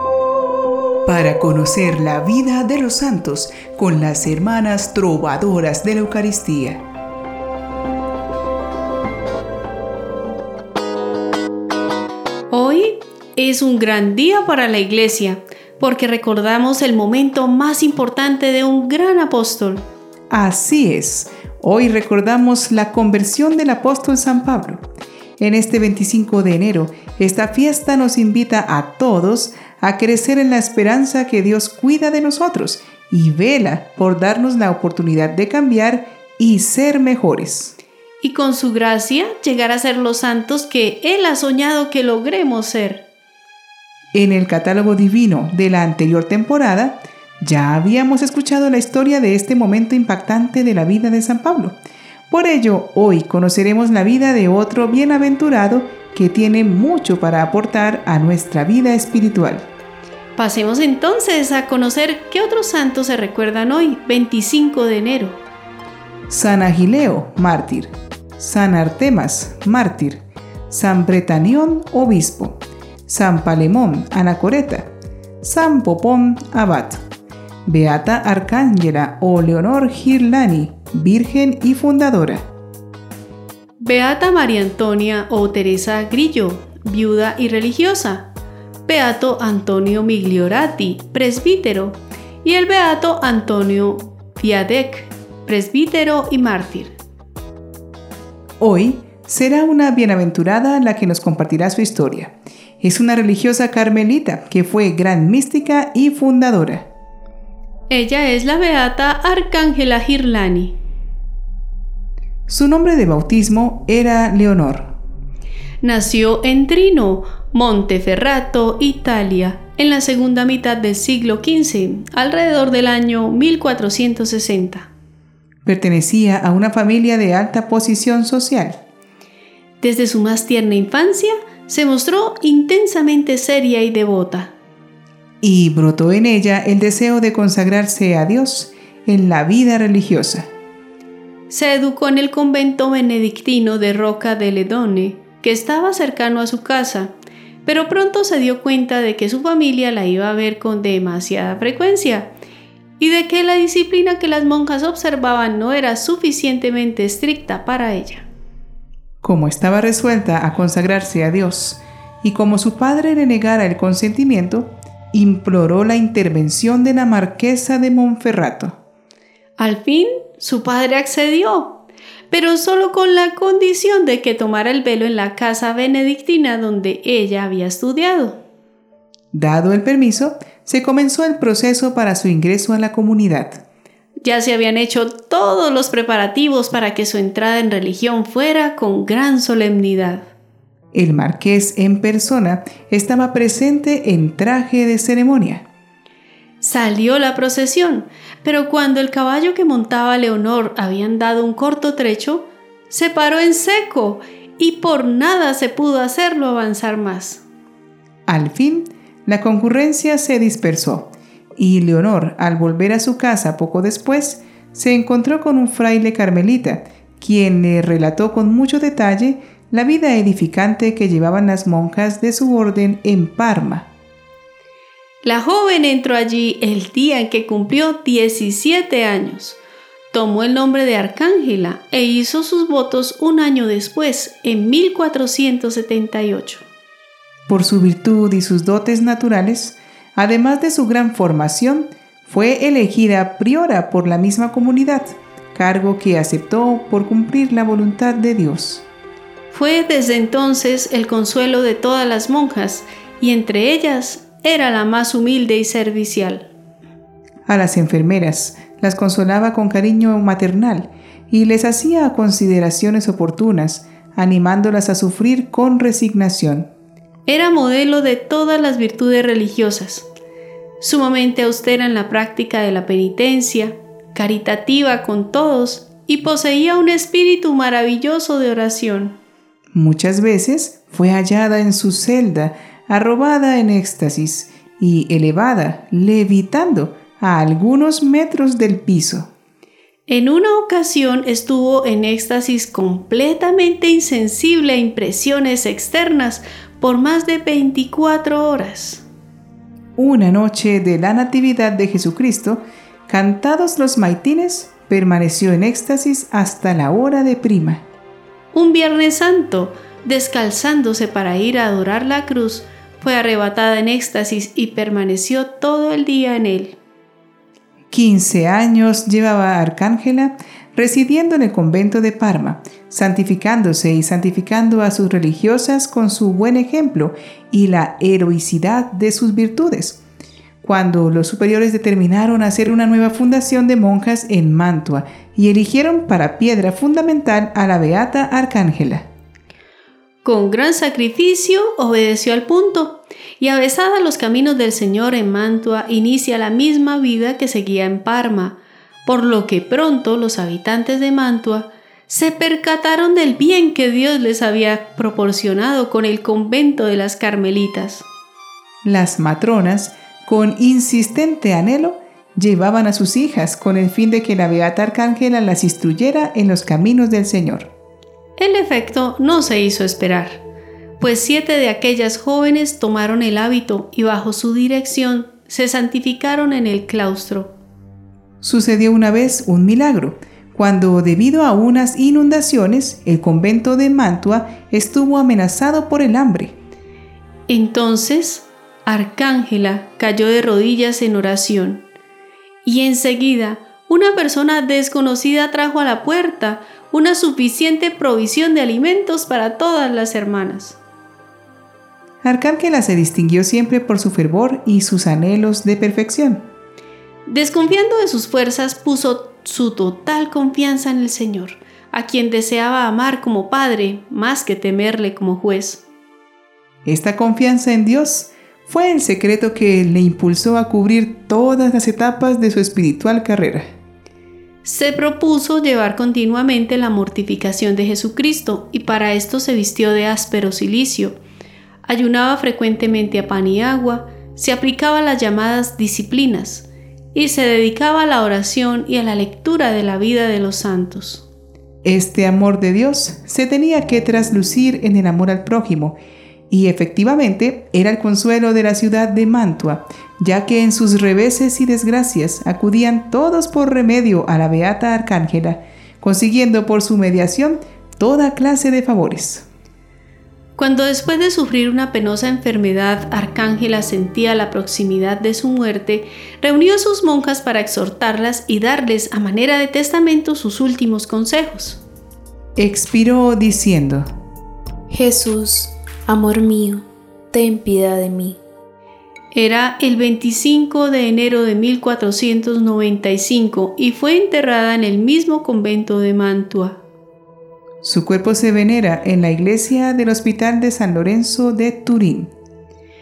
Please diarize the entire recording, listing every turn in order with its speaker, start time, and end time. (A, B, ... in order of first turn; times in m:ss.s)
0:01.0-0:06.8 A
0:12.5-0:19.8 B
0:20.3-0:24.8 A
0:25.4-0:37.7 A
0:38.2-0:43.0 B
0:44.1-0:51.8 A
0:52.3-0:59.6 A
1:00.4-1:05.4 B
1:06.3-1:14.9 A
1:15.4-1:17.0 A
1:17.6-1:22.5 A
1:23.8-1:28.2 B
1:28.8-1:36.9 B
1:38.6-1:46.9 A
1:47.9-1:50.7 B
1:52.5-1:54.9 A
1:55.8-2:04.9 B
2:05.6-2:08.8 A
2:09.8-2:14.5 B
2:15.4-2:20.5 A
2:21.5-2:27.1 B
2:27.6-2:32.3 B
2:33.0-2:38.3 B
2:39.2-2:48.8 A
2:49.6-2:51.7 B
2:52.3-2:58.4 B
2:59.3-3:03.6 A
3:04.2-3:10.3 B
3:10.9-3:15.6 A
3:16.6-3:27.4 B
3:28.3-3:43.9 A
3:45.2-3:49.6 B
3:50.1-3:56.6 B
3:57.5-4:08.8 A
4:09.5-4:16.5 B
4:17.5-4:26.7 A
4:27.3-4:30.0 B
4:30.8-4:39.1 B
4:39.7-4:49.3 A
4:50.1-4:59.0 B
5:00.0-5:07.8 A
5:08.5-5:16.8 B
5:17.9-5:30.0 A
5:30.6-5:39.1 A
5:40.2-5:58.0 B
5:58.8-6:07.7 A
6:08.4-6:10.4 B
6:11.0-6:17.5 B
6:18.4-6:26.5 A
6:27.5-6:31.8 B
6:32.6-6:40.8 B
6:42.2-6:46.4 A
6:47.2-6:55.8 B
6:56.8-7:03.7 A
7:04.6-7:11.2 B
7:11.8-7:21.2 B
7:21.8-7:26.0 A
7:26.5-7:39.4 A
7:40.6-7:51.8 B
7:52.6-7:54.1 A
7:54.9-7:58.4 C
7:59.3-8:06.8 B
8:07.8-8:12.3 A